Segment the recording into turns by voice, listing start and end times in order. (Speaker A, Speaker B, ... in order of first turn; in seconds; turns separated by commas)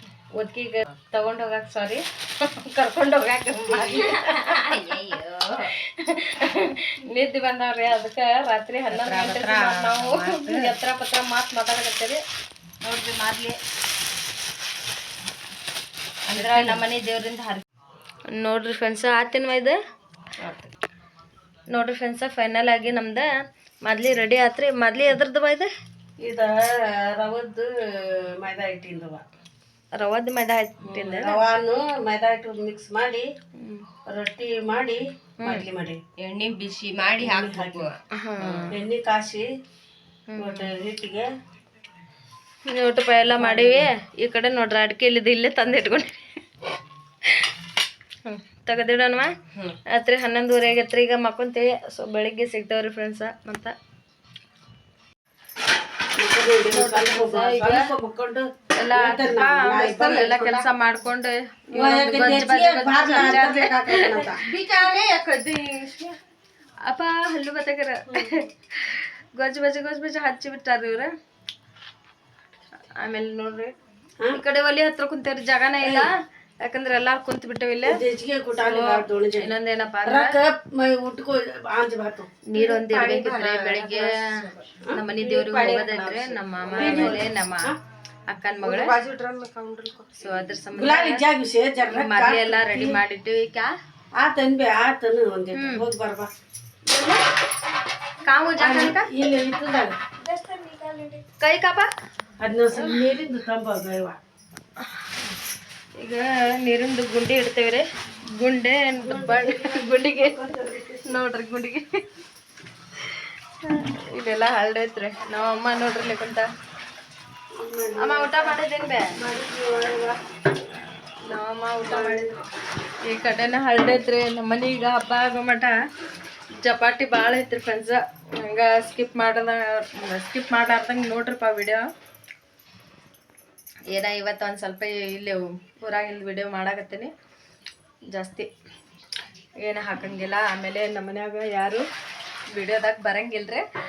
Speaker A: 0.4-5.2, Speaker B: 3.9-5.7, Speaker A: 5.7-12.2, Speaker B: 9.0-10.4, Speaker C: 10.3-10.7, Speaker A: 12.8-13.6, Speaker B: 16.3-16.8, Speaker A: 16.3-17.6, Speaker A: 18.3-19.8, Speaker A: 21.7-23.3, Speaker A: 23.8-25.7, Speaker C: 26.2-29.2, Speaker A: 30.0-31.4, Speaker C: 30.8-33.3, Speaker A: 33.6-33.9, Speaker C: 34.1-36.0, Speaker A: 35.4-35.7, Speaker B: 36.2-38.7, Speaker C: 37.2-37.9, Speaker A: 38.1-38.8, Speaker C: 38.7-39.5, Speaker A: 40.3-40.7, Speaker C: 40.4-41.3, Speaker A: 42.7-46.2, Speaker C: 43.4-43.9, Speaker A: 48.2-49.3, Speaker A: 49.9-53.7, Speaker C: 56.2-60.7, Speaker A: 56.6-57.9, Speaker A: 58.8-65.2, Speaker C: 61.7-64.6, Speaker B: 64.4-66.1, Speaker A: 66.8-71.1, Speaker A: 73.0-73.7, Speaker A: 74.3-78.0, Speaker C: 75.8-76.1, Speaker C: 77.9-79.5, Speaker A: 78.5-80.4, Speaker C: 80.0-87.8, Speaker A: 82.5-84.3, Speaker B: 82.7-83.8, Speaker A: 84.9-87.8, Speaker A: 88.3-89.0, Speaker C: 88.6-90.2, Speaker A: 90.2-91.3, Speaker C: 90.7-93.0, Speaker A: 91.9-93.7, Speaker C: 94.2-96.3, Speaker A: 95.5-95.8, Speaker A: 96.9-97.2, Speaker A: 98.2-99.2, Speaker C: 98.6-100.1, Speaker A: 101.2-101.9, Speaker C: 102.4-104.2, Speaker A: 102.7-103.2, Speaker A: 106.0-110.5, Speaker C: 109.0-111.1, Speaker A: 111.1-112.0, Speaker A: 113.0-116.5, Speaker C: 117.6-118.6, Speaker A: 118.0-119.2, Speaker C: 119.1-120.2, Speaker A: 121.2-122.4, Speaker C: 121.8-122.4, Speaker A: 123.0-125.8, Speaker A: 126.6-131.9, Speaker A: 133.9-137.1, Speaker A: 138.1-138.5, Speaker A: 139.6-141.8, Speaker A: 142.5-143.6